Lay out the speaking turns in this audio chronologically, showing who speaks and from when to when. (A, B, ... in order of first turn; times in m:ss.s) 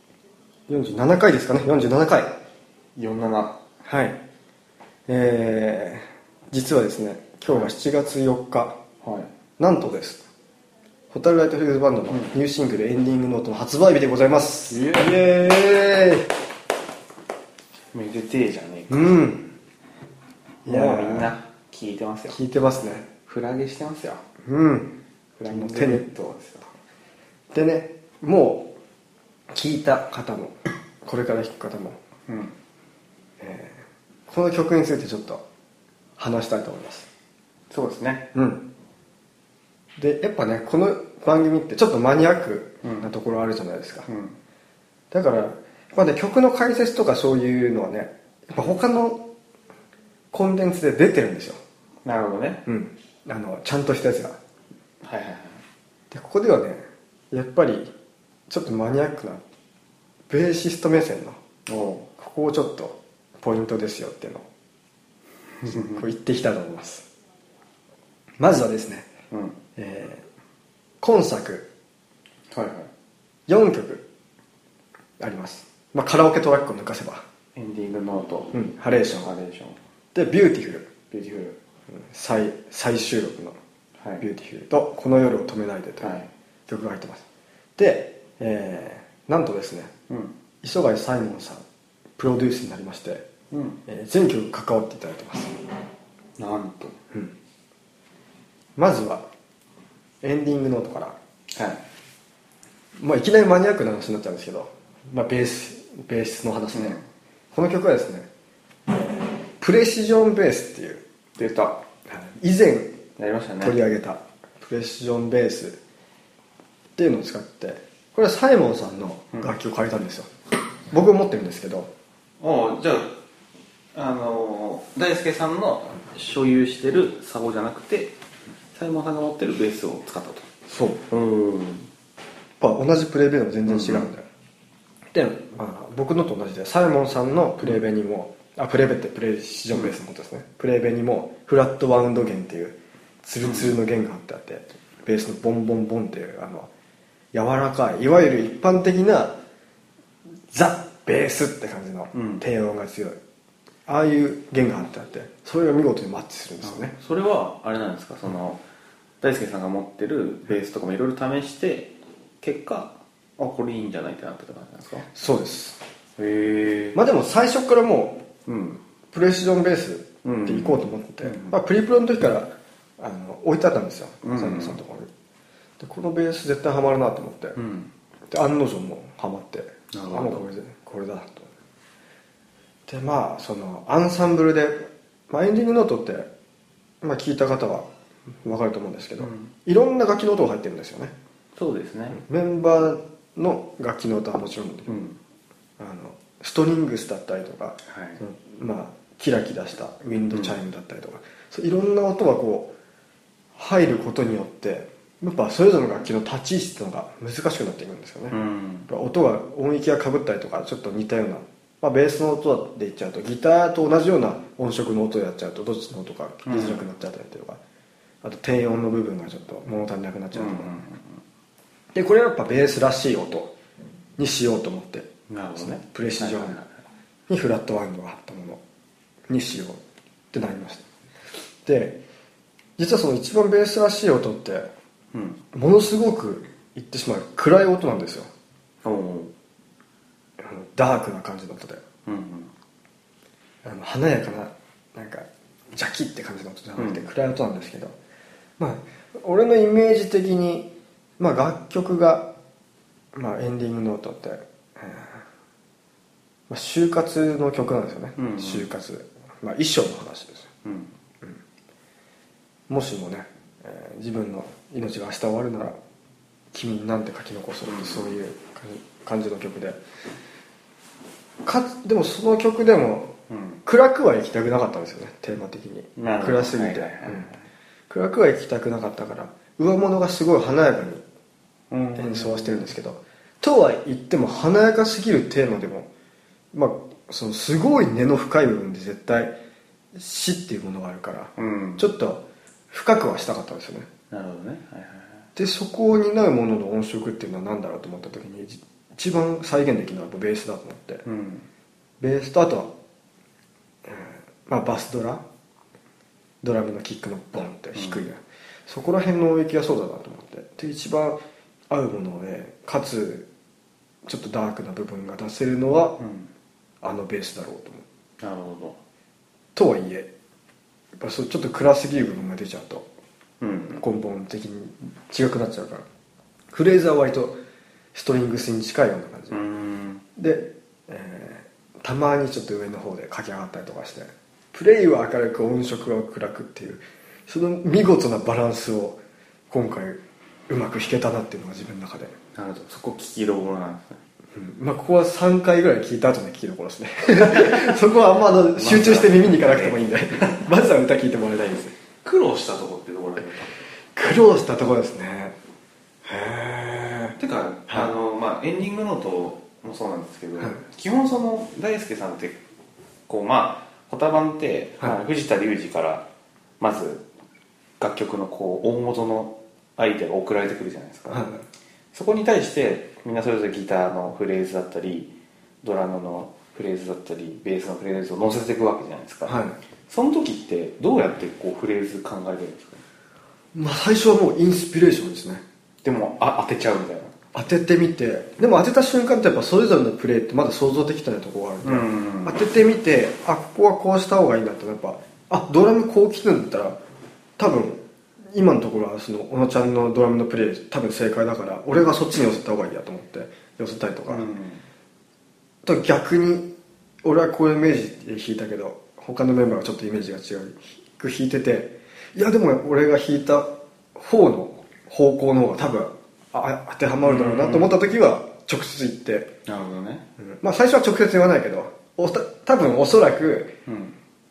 0:00.7-0:02.4 A
0:02.9-0:03.6 B
0:03.8-0:04.2 A
0:05.1-0:08.8 A
0:09.0-0:09.3 B
0:09.6-0:10.2 A
0:11.1-0:16.3 A
0:14.7-0:15.2 B
0:17.9-0:19.2 B
0:18.9-0:19.5 A
0:20.6-0:21.4 A
0:20.6-0:22.4 B
0:22.3-0:23.1 A
0:23.3-0:24.2 B
0:24.4-0:24.9 A
0:25.4-0:26.7 B
0:25.5-0:26.1 A
0:27.5-0:28.7 A
0:29.5-0:32.0 A
0:32.3-0:32.5 B
0:33.4-0:35.4 A
0:36.2-0:37.1 A
0:37.7-0:38.3 B
0:38.3-0:38.6 A
0:40.0-0:44.1 A
0:42.8-0:43.1 B
0:44.1-0:44.4 B
0:45.1-0:49.2 A
0:50.3-0:51.6 A
0:52.0-0:52.6 B
0:52.6-0:54.4 A
0:55.0-0:55.6 B
0:56.1-0:57.9 A
0:58.5-0:59.4 A
1:00.3-1:01.4 A
1:01.7-1:02.1 B
1:02.2-1:04.5 A
1:05.6-1:07.1 A
1:08.4-1:09.1 A
1:09.3-1:09.6 B
1:09.8-1:10.2 A
1:11.0-1:11.7 A
1:12.5-1:12.9 B
1:13.5-1:14.0 A
1:15.2-1:17.2 A
1:17.5-1:18.6 B
1:18.5-1:19.3 A
1:19.1-1:19.8 B
1:20.1-1:20.9 A
1:21.1-1:21.6 B
1:21.9-1:23.6 A
1:24.0-1:24.2 B
1:24.2-1:27.2 A
1:26.0-1:26.3 B
1:27.8-1:29.9 A
1:30.6-1:31.6 A
1:32.2-1:33.2 A
1:33.5-1:33.8 B
1:33.8-1:35.5 A
1:36.4-1:37.0 B
1:38.8-1:39.3 A
1:40.2-1:41.2 A
1:41.5-1:41.8 B
1:43.0-1:47.0 A
1:46.7-1:47.0 B
1:47.5-1:48.3 A
1:49.6-1:51.0 A
1:51.4-1:51.8 B
1:52.1-1:53.0 A
1:53.2-1:53.8 B
1:53.6-1:55.8 A
1:57.0-2:00.3 A
2:00.9-2:01.9 A
2:02.4-2:03.1 B
2:03.9-2:08.2 B
2:08.7-2:10.5 B
2:10.7-2:11.0 A
2:11.1-2:11.9 B
2:12.6-2:14.2 A
2:13.6-2:14.1 B
2:15.1-2:26.7 A
2:23.4-2:23.8 B
2:27.3-2:29.4 A
2:30.5-2:33.2 A
2:32.1-2:32.4 B
2:33.8-2:36.9 A
2:36.6-2:38.6 B
2:39.2-2:45.1 B
2:45.1-2:45.8 A
2:46.2-2:47.0 B
2:46.9-2:48.2 A
2:48.4-2:48.8 B
2:49.1-2:55.1 A
2:50.2-2:51.6 B
2:54.2-2:54.8 B
2:55.8-2:57.6 A
2:57.6-2:57.9 B
2:58.3-3:01.5 A
2:59.9-3:00.4 B
3:02.9-3:06.3 A
3:07.0-3:07.9 A
3:08.4-3:11.1 A
3:09.2-3:09.5 B
3:11.5-3:12.2 B
3:12.1-3:15.0 A
3:14.9-3:15.2 B
3:15.8-3:22.7 A
3:17.9-3:18.2 B
3:20.3-3:20.6 B
3:23.6-3:37.6 A
3:28.3-3:28.9 B
3:36.4-3:36.8 B
3:38.2-3:40.7 A
3:40.3-3:41.2 B
3:41.9-3:43.5 A
3:44.2-3:46.6 A
3:45.3-3:46.7 B
3:47.3-3:48.6 A
3:49.3-3:49.8 A
3:50.3-3:50.8 A
3:51.6-3:52.0 A
3:52.8-3:54.7 A
3:55.1-3:55.4 B
3:55.5-3:58.3 A
3:58.8-3:59.3 B
4:00.4-4:01.8 A
4:02.0-4:02.5 B
4:03.6-4:08.0 A
4:06.8-4:07.0 B
4:08.6-4:12.3 A
4:13.1-4:15.2 A
4:16.5-4:20.5 A
4:18.2-4:18.7 B
4:20.6-4:20.9 B
4:22.7-4:25.8 A
4:26.5-4:29.8 A
4:27.7-4:28.1 B
4:31.4-4:37.3 A
4:33.3-4:33.6 B
4:36.0-4:37.4 B
4:37.9-4:41.0 A
4:41.7-4:42.7 B
4:42.0-4:45.9 A
4:46.5-4:49.3 A
4:49.9-4:53.9 A
4:51.4-4:51.8 B
4:54.1-4:55.2 B
4:55.4-5:01.0 A
5:01.0-5:01.5 B
5:02.0-5:02.7 A
5:03.8-5:05.2 A
5:06.4-5:13.3 A
5:07.7-5:08.0 B
5:14.0-5:16.0 A
5:16.0-5:16.3 B
5:16.8-5:17.8 A
5:18.2-5:18.8 B
5:19.5-5:20.1 A
5:21.0-5:22.9 A
5:23.4-5:23.8 B
5:23.8-5:25.8 A
5:26.5-5:27.4 A
5:27.9-5:29.4 A
5:29.3-5:30.0 B
5:30.2-5:42.1 A
5:42.3-5:44.0 B
5:44.3-5:51.7 A
5:47.1-5:47.8 B
5:48.6-5:50.5 B
5:52.0-5:53.5 B
5:54.0-5:55.3 A
5:56.0-5:57.2 A
5:57.2-6:02.4 B
6:03.1-6:06.1 B
6:06.6-6:07.0 B
6:07.8-6:11.3 B
6:11.1-6:11.4 A
6:11.9-6:22.8 B
6:19.2-6:19.6 A
6:23.5-6:25.4 A
6:25.8-6:27.2 B
6:27.3-6:36.8 A
6:31.6-6:32.4 B
6:37.4-6:44.2 A
6:44.1-6:44.6 B
6:45.6-6:46.5 A
6:47.0-6:59.3 A
6:57.0-6:57.8 B
6:59.4-7:00.0 B
7:00.2-7:03.5 A
7:03.6-7:04.0 B